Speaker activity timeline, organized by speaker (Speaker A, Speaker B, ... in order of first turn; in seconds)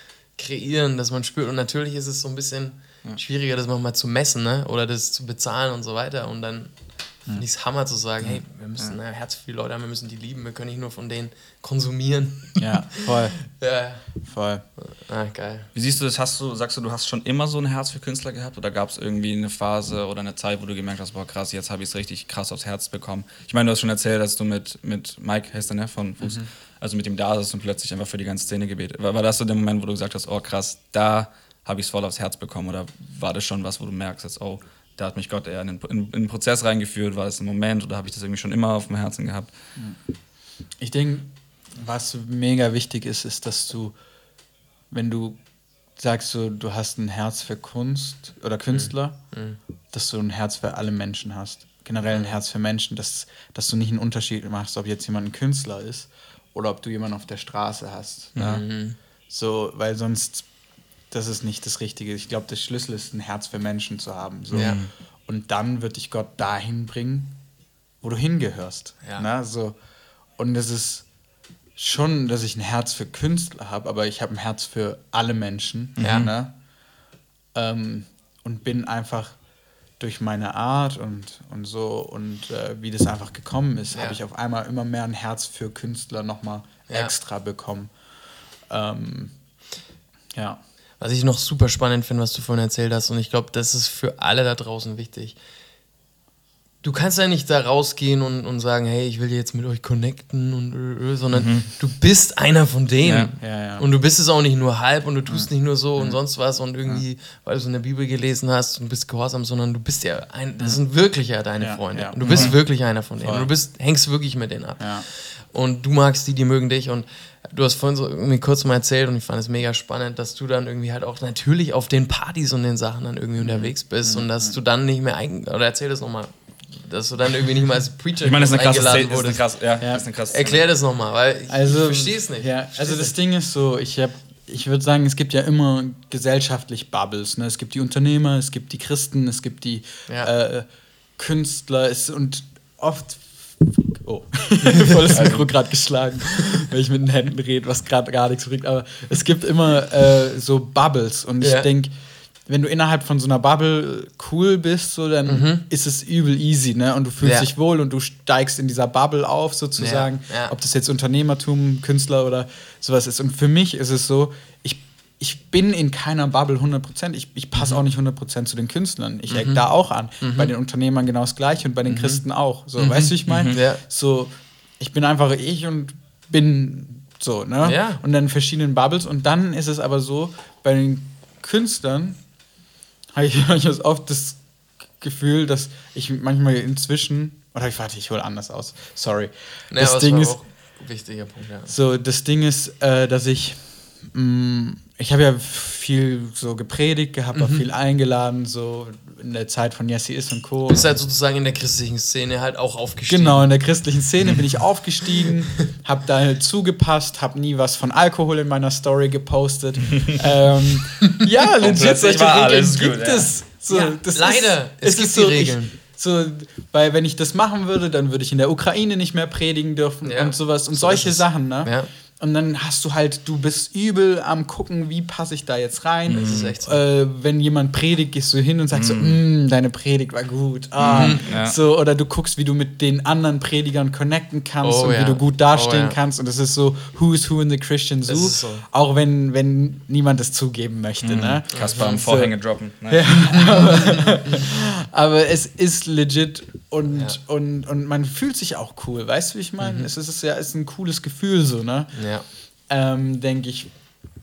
Speaker A: 0.3-14.1, 14.8-15.7, 48.7-49.6, 52.1-52.4, 58.4-59.0, 69.0-69.3, 76.0-76.3, 91.0-95.4, 96.8-129.4, 130.3-133.1, 151.4-151.7, 155.3-155.6, 157.2-157.5, 159.8-160.5, 169.3-169.7, 170.2-170.5, 171.9-172.2, 172.8-173.8, 177.6-178.0, 189.7-191.7, 197.3-197.7, 200.7-203.5, 213.7-215.8, 220.0-221.9, 226.1-226.8, 230.8-231.2, 234.6-236.0, 238.1-238.7, 241.5-242.0, 246.9-247.2, 249.6-249.9, 251.9-252.2
Speaker B: 12.6-13.4, 14.2-14.7, 26.2-26.5, 40.8-44.0, 44.9-45.4, 46.0-49.2, 49.9-58.7, 59.3-60.5, 61.1-67.4, 68.0-69.8, 70.4-71.1, 71.8-76.5, 77.5-79.4, 80.0-87.9, 88.7-89.4, 90.3-90.6, 103.4-103.9, 105.3-106.2, 111.6-113.5, 114.8-115.1, 124.1-124.6, 129.8-130.1, 131.5-151.9, 152.5-182.2, 183.1-184.4, 184.9-190.4, 191.7-200.9, 203.1-252.0, 252.7-253.7
Speaker C: 15.7-39.5, 58.4-58.6, 64.5-64.9, 76.0-76.3, 101.3-101.7, 103.0-103.3, 112.2-112.5, 128.2-130.6, 145.1-145.5, 173.3-173.6, 211.6-213.3, 226.1-226.5, 228.7-229.2, 230.8-231.6, 241.0-243.8